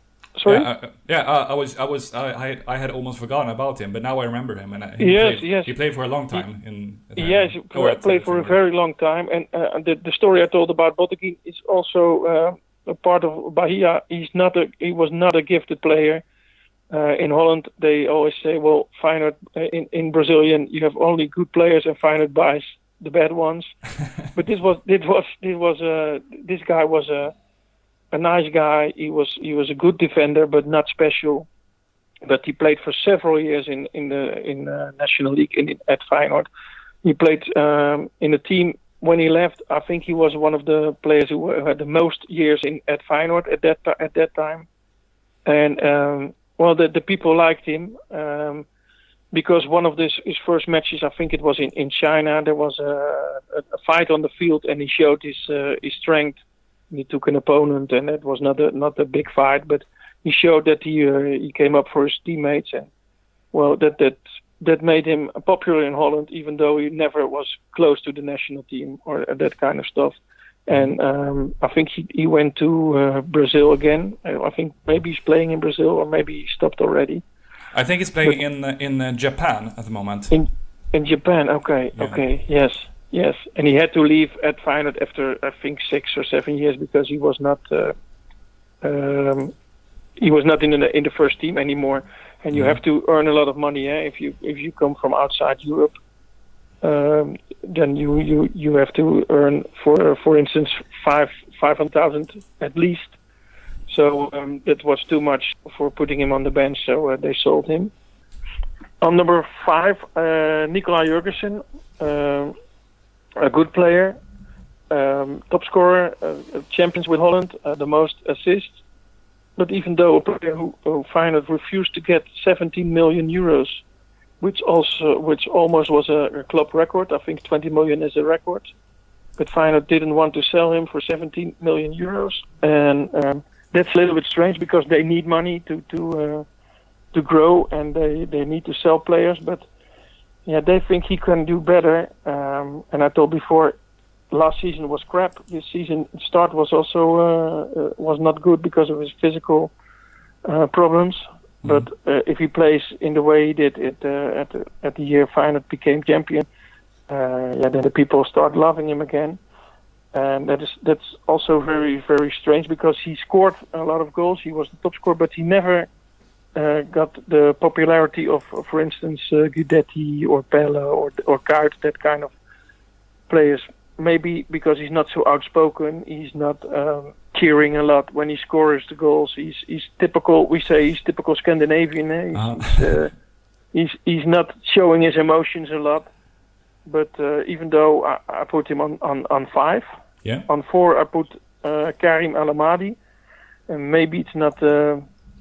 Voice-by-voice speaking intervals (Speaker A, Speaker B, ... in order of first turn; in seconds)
Speaker A: 0.3-0.7, 5.0-5.7, 7.2-16.2, 16.9-23.7, 24.3-27.3, 28.1-31.5, 32.2-36.5, 37.0-44.7, 45.5-48.7, 49.3-56.4, 56.9-62.9, 63.5-77.2, 80.3-87.9, 88.8-89.5, 90.2-95.9, 96.8-103.2, 103.9-107.9, 109.0-112.5, 113.4-114.2, 114.9-118.8, 119.6-123.8, 124.4-128.7, 129.4-136.4, 137.1-139.7, 140.4-143.8, 144.3-149.7, 150.4-156.4, 157.1-159.4, 160.1-165.9, 166.5-172.3, 173.3-183.1, 183.7-186.1, 186.8-189.9, 190.5-193.0, 193.7-195.0
Speaker B: 0.5-8.6, 77.7-80.3, 82.0-82.2, 92.5-92.8, 182.3-183.0